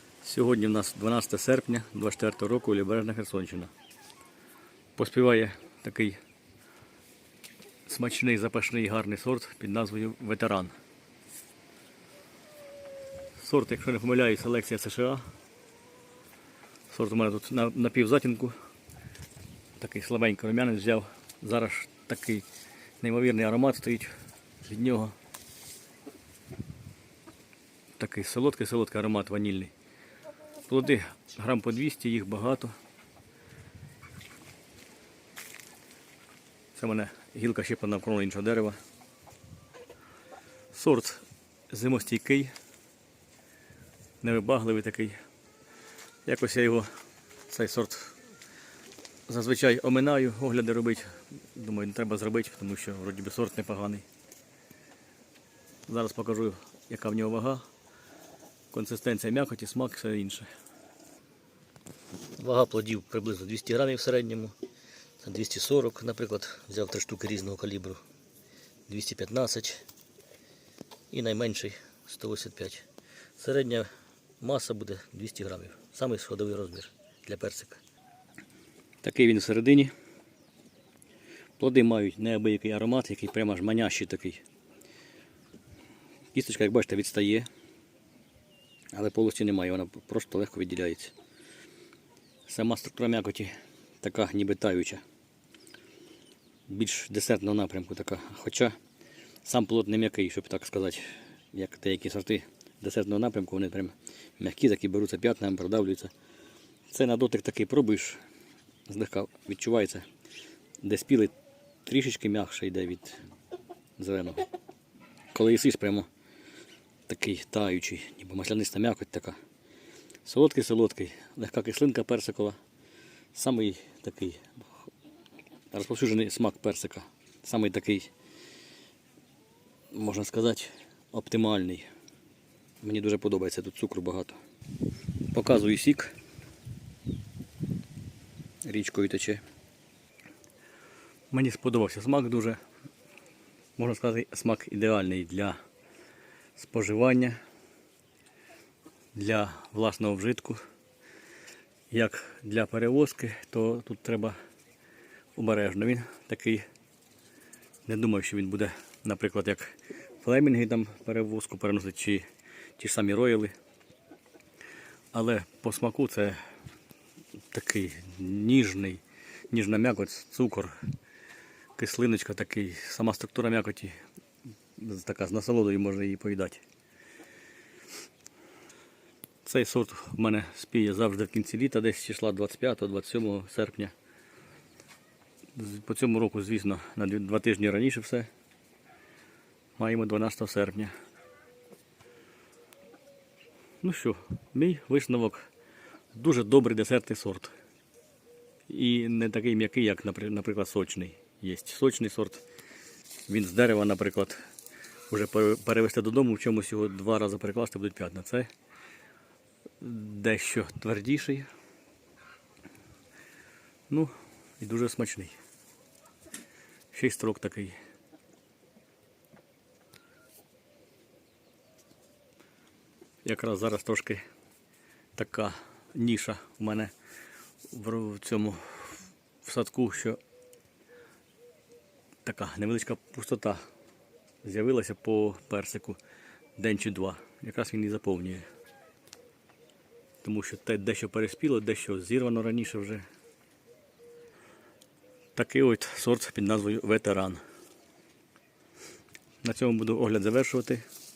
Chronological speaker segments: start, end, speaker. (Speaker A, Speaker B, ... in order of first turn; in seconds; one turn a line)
Speaker A: 0.2-3.7
Speaker A: 5.0-6.2
Speaker A: 7.8-10.7
Speaker A: 13.4-15.2
Speaker A: 16.9-18.5
Speaker A: 19.8-22.4
Speaker A: 23.0-24.1
Speaker A: 24.6-25.1
Speaker A: 28.0-29.7
Speaker A: 30.7-32.7
Speaker A: 36.7-38.8
Speaker A: 40.7-42.5
Speaker A: 44.2-45.1
Speaker A: 46.2-46.9
Speaker A: 47.5-48.1
Speaker A: 49.3-54.0
Speaker A: 55.9-57.6
Speaker A: 58.7-60.5
Speaker A: 62.4-64.5
Speaker A: 65.2-68.0
Speaker A: 68.9-69.8
Speaker A: 71.1-72.8
Speaker A: 73.4-73.9
Speaker A: 74.4-77.8
Speaker A: 79.0-79.9
Speaker A: 81.6-84.4
Speaker A: 86.3-87.5
Speaker A: 88.9-91.1
Speaker A: 92.5-95.0
Speaker A: 96.7-98.8
Speaker A: 99.4-106.1
Speaker A: 106.9-108.2
Speaker A: 108.9-110.0
Speaker A: 110.8-111.3
Speaker A: 111.8-113.2
Speaker A: 114.0-114.4
Speaker A: 115.3-116.1
Speaker A: 117.1-119.4
Speaker A: 120.2-122.5
Speaker A: 123.3-124.5
Speaker A: 125.7-128.1
Speaker A: 129.9-131.8
Speaker A: 132.8-134.4
Speaker A: 135.3-136.1
Speaker A: 138.6-139.4
Speaker A: 141.3-142.6
Speaker A: 143.8-145.6
Speaker A: 146.6-147.4
Speaker A: 149.1-150.6
Speaker A: 151.9-154.3
Speaker A: 155.3-156.6
Speaker A: 157.8-162.2
Speaker A: 162.8-163.5
Speaker A: 165.1-166.4
Speaker A: 167.5-170.8
Speaker A: 171.8-173.9
Speaker A: 174.8-176.6
Speaker A: 179.4-183.9
Speaker A: 185.5-188.3
Speaker A: 189.8-190.9
Speaker A: 193.8-195.5
Speaker A: 196.1-197.5
Speaker A: 198.7-202.4
Speaker A: 203.3-204.4
Speaker A: 205.1-208.5
Speaker A: 209.8-211.5
Speaker A: 213.9-215.3
Speaker A: 216.9-217.8
Speaker A: 223.2-224.2
Speaker A: 225.2-226.9
Speaker A: 227.7-230.2
Speaker A: 232.2-233.6
Speaker A: 234.4-236.0
Speaker A: 236.6-238.4
Speaker A: 240.2-243.0
Speaker A: 245.3-247.4
Speaker A: 249.4-250.8